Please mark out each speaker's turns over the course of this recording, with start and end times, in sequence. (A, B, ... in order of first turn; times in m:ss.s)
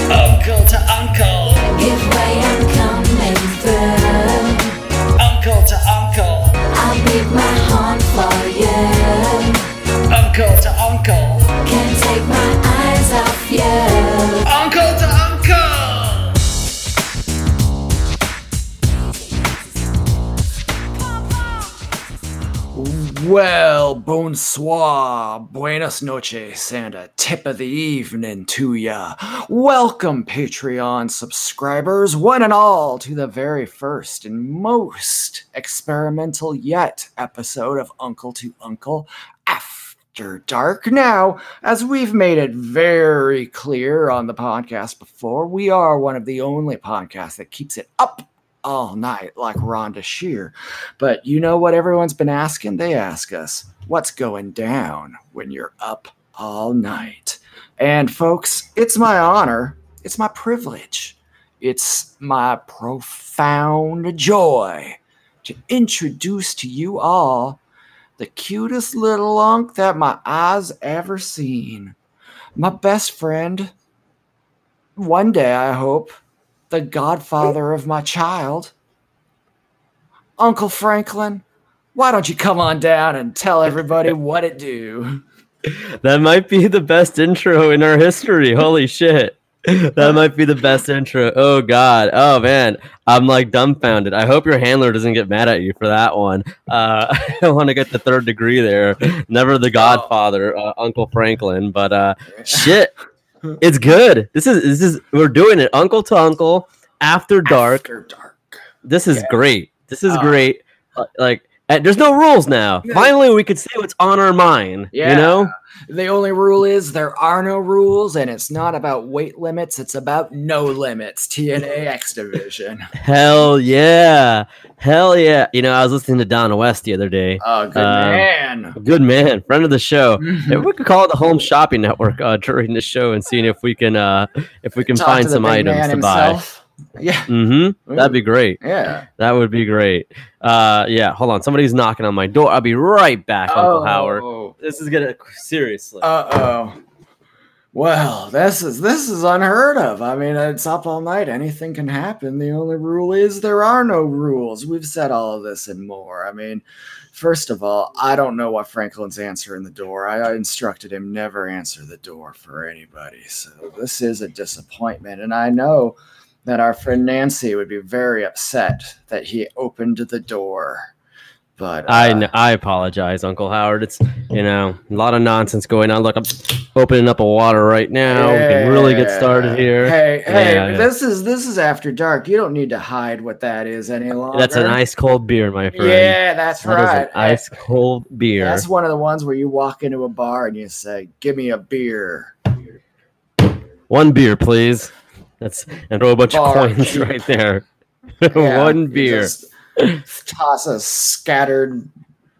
0:00.1-0:01.7 A
0:01.7-0:04.7 B
0:05.2-0:06.6 A
0:06.7-0:09.6 B
0:10.1-0:11.5 A
0:11.6-0:14.5 B
0:14.4-0:16.4 A
0:22.7-1:07.6 A
1:08.2-1:12.0 A
1:12.6-1:13.7 A
1:15.0-1:16.1 A
1:16.7-1:18.7 A
1:20.4-1:21.4 A
1:21.9-1:25.2 A
1:25.7-1:42.9 C
1:39.8-1:40.1 A
1:42.4-1:42.7 A
1:43.6-1:47.9 C
1:47.4-1:48.6 A
1:48.8-1:55.5 C
1:50.1-1:50.4 A
1:52.8-1:53.1 A
1:54.9-2:02.9 A
2:03.0-2:16.4 C
2:07.4-2:08.8 A
2:10.2-2:10.6 A
2:14.8-2:17.3 A
2:17.3-2:18.6 C
2:17.9-2:19.0 A
2:19.2-2:26.1 C
2:23.5-2:24.5 A
2:26.0-2:26.8 A
2:27.7-2:50.9 A
2:51.6-2:52.3 A
2:51.9-3:00.9 C
2:58.1-3:04.8 A
3:04.3-3:08.6 C
3:05.7-3:07.4 A
3:08.3-3:12.3 A
3:13.9-3:17.6 C
3:16.3-3:17.1 A
3:18.2-3:20.0 C
3:18.3-3:19.5 A
3:20.0-3:21.9 A